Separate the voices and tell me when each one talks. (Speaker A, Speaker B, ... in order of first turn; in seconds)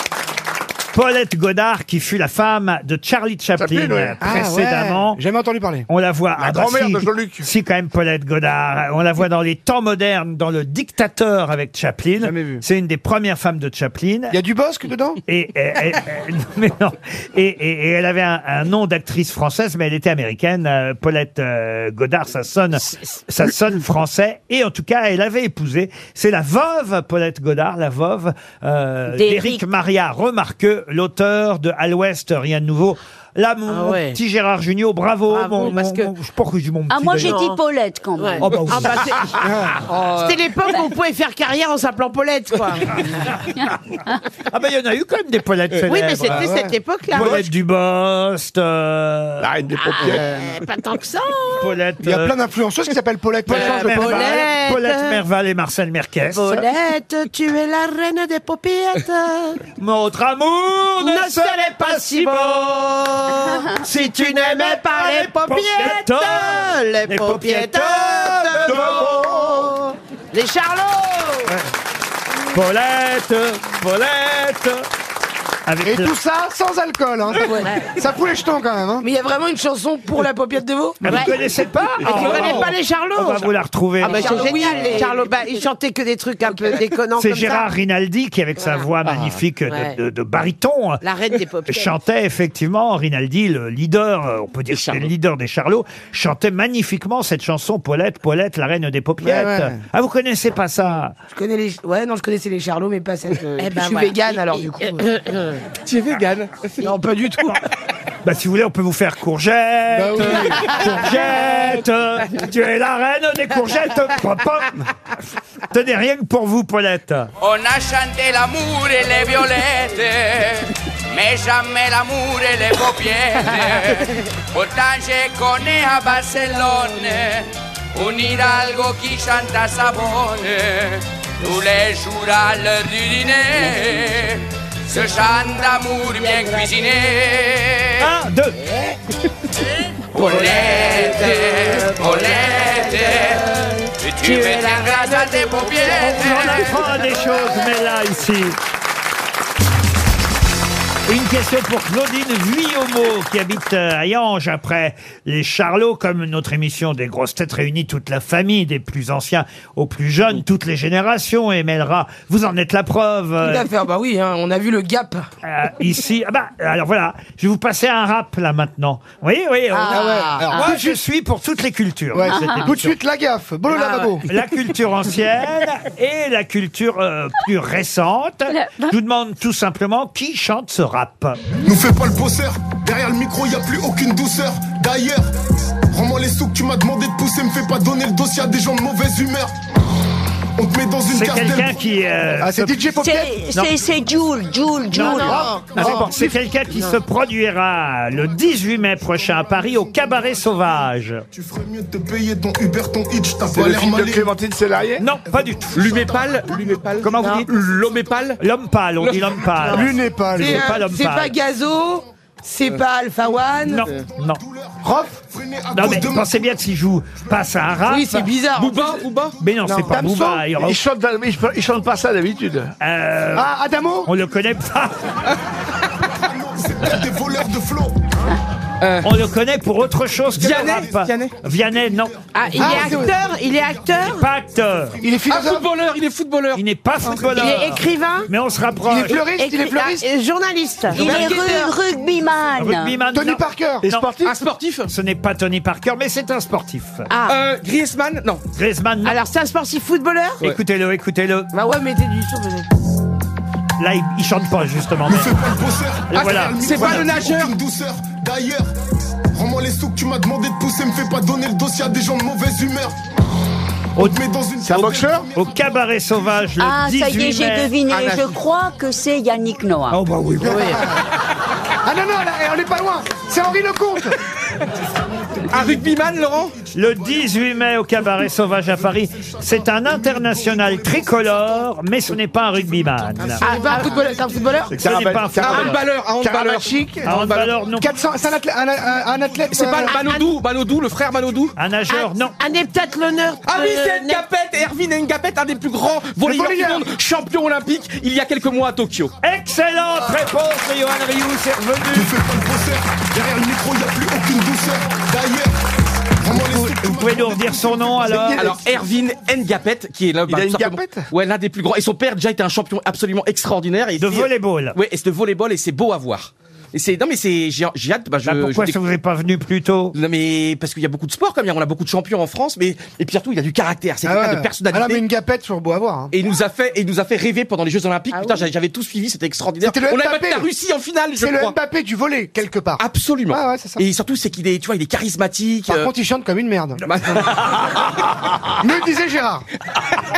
Speaker A: 0.9-5.2, 5.9-14.4, 15.3-37.4, 38.4-39.1, 44.5-46.5, 47.1-49.5, 51.6-52.4, 53.5-56.7, 59.8-62.9, 63.8-69.7, 72.5-74.9, 75.7-76.1, 81.0-84.7, 87.2-91.0, 91.7-101.1, 108.2-114.9, 115.7-117.3, 138.0-138.7, 140.2-140.5, 145.9-148.6, 151.1-163.7, 165.4-173.0, 174.3-181.4, 191.1-192.9, 194.9-201.2, 205.0-205.8, 207.0-207.5, 208.4-211.4, 213.7-214.4, 215.7-218.3, 219.4-220.8, 222.8-223.5, 224.1-225.0, 229.0-232.9, 234.0-235.0, 236.5-239.2, 242.6-244.1, 244.9-247.1, 248.5-249.2, 250.4-251.5, 253.8-255.3, 256.1-257.1, 264.7-267.8, 269.9-270.8, 276.7-283.4, 284.8-285.8, 287.1-287.9, 291.6-292.4, 299.2-302.1, 306.4-308.5, 314.0-314.8, 318.3-319.9
Speaker B: 3.6-4.2, 6.4-7.5, 12.3-12.6, 47.1-47.4, 49.4-50.4, 82.2-82.7, 195.8-196.1, 203.5-205.0, 220.6-222.7, 264.6-265.3, 284.7-286.9, 310.3-310.7
Speaker C: 4.2-5.9, 14.3-15.2, 39.4-39.8, 46.3-46.7, 52.0-54.3, 75.8-79.1, 99.2-99.8, 109.9-111.2, 169.9-171.0, 172.1-174.2, 192.4-193.6, 195.8-196.2, 209.7-210.7, 214.8-215.1, 219.7-220.5, 223.3-224.1, 232.6-233.2, 235.0-235.7, 238.8-240.1, 243.1-244.4, 270.4-271.1, 271.9-274.2, 286.2-287.0, 287.8-290.0, 296.2-296.9, 310.6-311.0, 324.0-326.1, 329.6-330.5, 331.2-333.8, 335.7-337.2, 338.6-339.4
Speaker D: 29.1-29.6, 36.9-38.7, 172.3-172.7, 178.6-178.9, 193.0-195.6, 240.9-243.0, 266.6-270.0
Speaker E: 33.7-34.2, 35.3-36.1, 37.2-37.6, 38.2-39.5, 40.1-43.4, 45.9-47.5, 49.8-51.7, 53.5-55.2, 56.3-59.6, 61.0-71.5, 81.0-81.4, 82.0-87.7, 88.6-90.0, 91.0-91.9, 94.7-95.1, 103.5-105.6, 140.2-143.6, 144.2-146.8, 195.0-195.4, 232.3-234.2, 237.3-238.3, 239.1-241.7, 247.1-247.4, 249.1-250.4, 267.9-268.4, 270.4-270.8, 283.4-283.9, 289.9-290.3, 291.9-294.2
Speaker F: 40.0-40.2, 105.9-106.9, 205.7-208.4, 209.0-209.8, 218.6-219.4, 228.8-229.1, 230.4-231.3, 235.3-236.6, 244.2-244.9, 247.3-248.4, 256.1-257.6, 275.5-276.6, 285.4-287.5, 289.5-291.5, 293.4-299.1, 308.4-318.8, 319.9-325.0, 326.1-331.6, 332.8-335.9, 336.9-337.9
Speaker G: 77.4-77.8, 79.0-81.2, 84.1-85.2, 101.3-105.0, 106.8-107.6, 141.1-142.1, 163.4-165.3, 169.8-170.6, 173.7-174.1, 195.3-195.7, 210.3-213.9, 217.8-219.1, 241.0-241.7, 251.5-252.7, 283.4-284.7
Speaker H: 117.4-120.2, 121.1-123.5, 124.5-127.4, 128.0-130.6, 131.4-133.6, 134.9-137.2, 144.1-146.0
Speaker I: 181.6-185.3, 185.9-189.6, 190.6-191.8, 195.7-196.9, 198.1-204.3, 205.3-207.0, 213.9-216.5, 226.2-228.0, 231.5-234.1, 255.1-258.7, 259.3-263.0, 264.0-266.5, 274.9-277.5, 278.6-281.7, 282.5-284.6, 301.9-309.3